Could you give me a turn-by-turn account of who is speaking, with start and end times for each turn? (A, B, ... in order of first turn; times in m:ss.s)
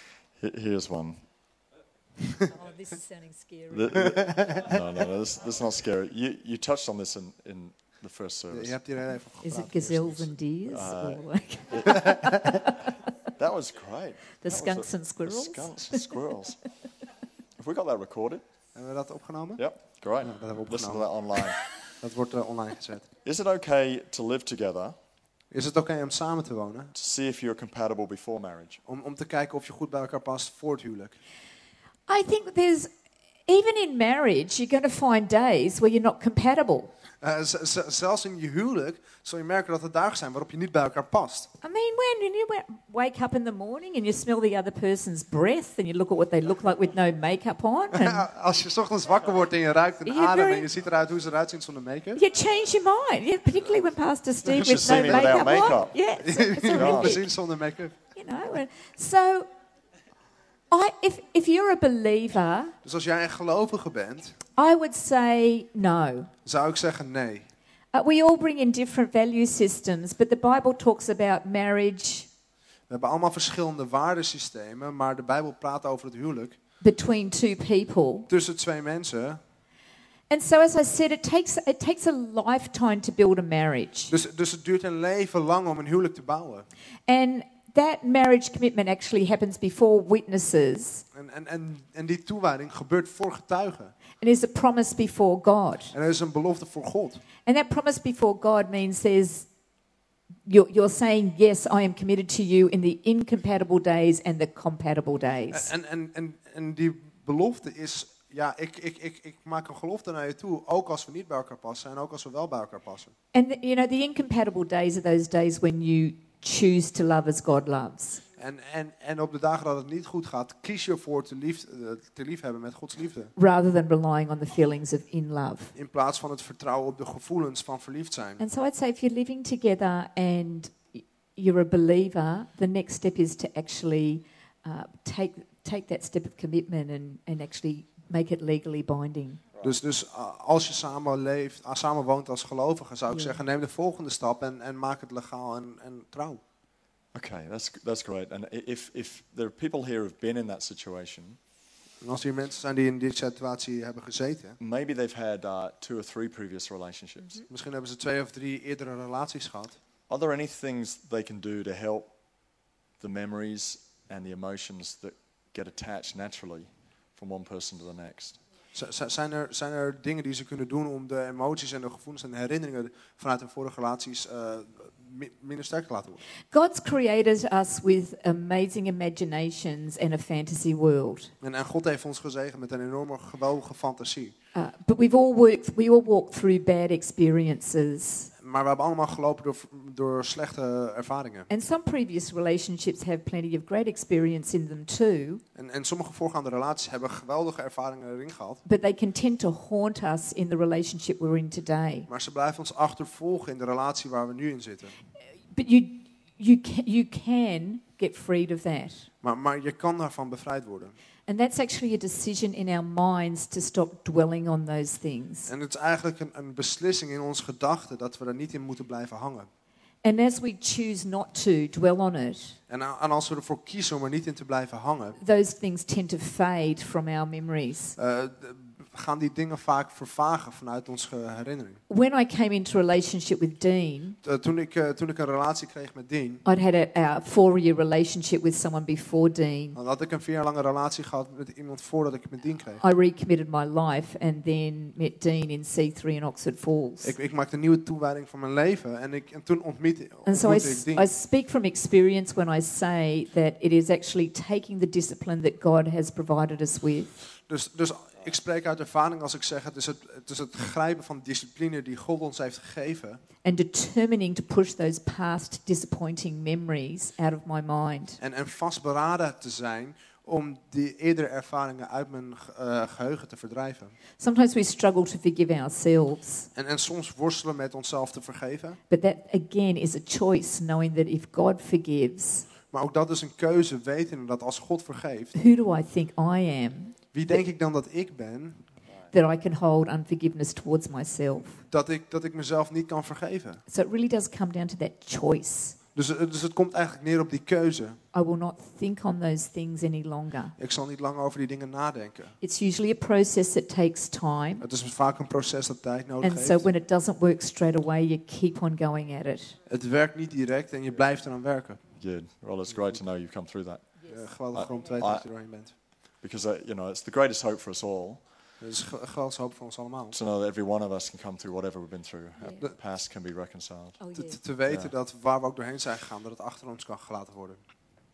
0:00.4-0:01.2 A
0:02.5-0:04.3 B
0:03.7-0:08.8 A
0:08.5-0:10.3 C
0:09.4-0:12.9 B
0:10.7-0:11.9 A
0:13.4-0:16.6 A
0:14.4-0:16.1 B
0:17.6-0:18.4 A
0:18.8-0:21.4 C
0:19.6-0:21.6 A
0:21.9-0:23.1 C
0:23.2-0:25.0 A
0:25.5-0:26.9 C
0:27.0-0:28.8 A
0:28.9-0:31.2 C
0:32.1-0:32.9 B
0:33.5-0:36.9 B
0:37.2-0:41.5 C
0:41.6-0:48.2 B
0:47.9-0:52.2 C
0:50.1-0:50.7 B
0:52.2-0:57.2 B
0:54.6-0:55.5 C
0:54.6-0:56.0 A
0:56.2-0:57.9 C
0:56.7-0:57.2 A
0:58.2-0:59.5 B
1:00.7-1:02.8 B
1:02.8-1:04.4 C
1:04.6-1:06.3 B
1:06.4-1:07.5 C
1:07.9-1:12.3 B
1:12.9-1:16.6 C
1:16.8-1:18.3 B
1:18.3-1:19.4 C
1:20.3-1:24.1 B
1:24.1-1:26.7 C
1:27.1-1:31.0 B
1:31.1-1:33.9 C
1:34.2-1:35.9 B
1:35.9-1:37.2 C
1:37.4-1:39.5 B
1:40.5-1:45.7 B
1:45.5-1:53.1 C
1:53.3-1:58.2 B
1:58.4-2:03.3 C
2:03.4-2:05.7 B
2:05.8-2:08.4 C
2:08.4-2:19.4 B
2:19.6-2:26.4 C
2:23.1-2:23.4 B
2:27.1-2:31.4 A
2:32.0-2:34.6 C
2:34.6-2:37.4 A
2:37.5-2:39.8 C
2:40.1-2:42.2 A
2:43.0-2:48.4 A
2:48.7-2:56.2 C
2:56.5-3:01.3 B
3:01.4-3:04.3 C
3:04.6-3:08.3 B
3:08.4-3:11.5 C
3:11.5-3:15.4 B
3:15.6-3:18.6 C
3:18.6-3:22.1 B
3:22.1-3:25.0 C
3:25.5-3:29.1 B
3:29.2-3:31.0 C
3:31.3-3:35.5 B
3:35.5-3:39.5 C
3:40.0-3:42.6 B
3:42.7-3:45.2 C
3:45.2-3:48.0 B
3:48.0-3:51.8 C
3:51.9-3:54.2 B
3:54.2-3:56.4 C
3:56.4-3:59.8 B
3:59.8-4:02.8 C
4:02.8-4:07.1 B
4:07.0-4:11.1 C
4:10.2-4:17.2 B
4:17.5-4:23.2 C
4:23.4-4:28.2 B
4:28.2-4:34.0 C
4:34.2-4:36.5 B
4:36.6-4:38.8 C
4:38.9-4:42.5 B
4:42.7-4:45.3 C
4:45.3-4:47.4 B
4:47.1-4:48.6 C
4:49.1-4:51.6 B
4:51.7-4:53.6 C
4:53.7-4:55.8 B
4:56.0-4:58.0 C
4:58.1-5:00.6 B
5:00.6-5:02.4 C
5:02.4-5:04.6 B
5:04.6-5:06.7 C
5:06.2-5:09.6 B
5:09.7-5:11.9 C
5:12.0-5:18.4 A
5:14.0-5:14.3 B
5:14.1-5:15.8 C
5:18.6-5:20.2 C
5:20.1-5:24.1 A
5:24.0-5:24.4 B
5:24.2-5:27.6 C
5:24.7-5:24.9 A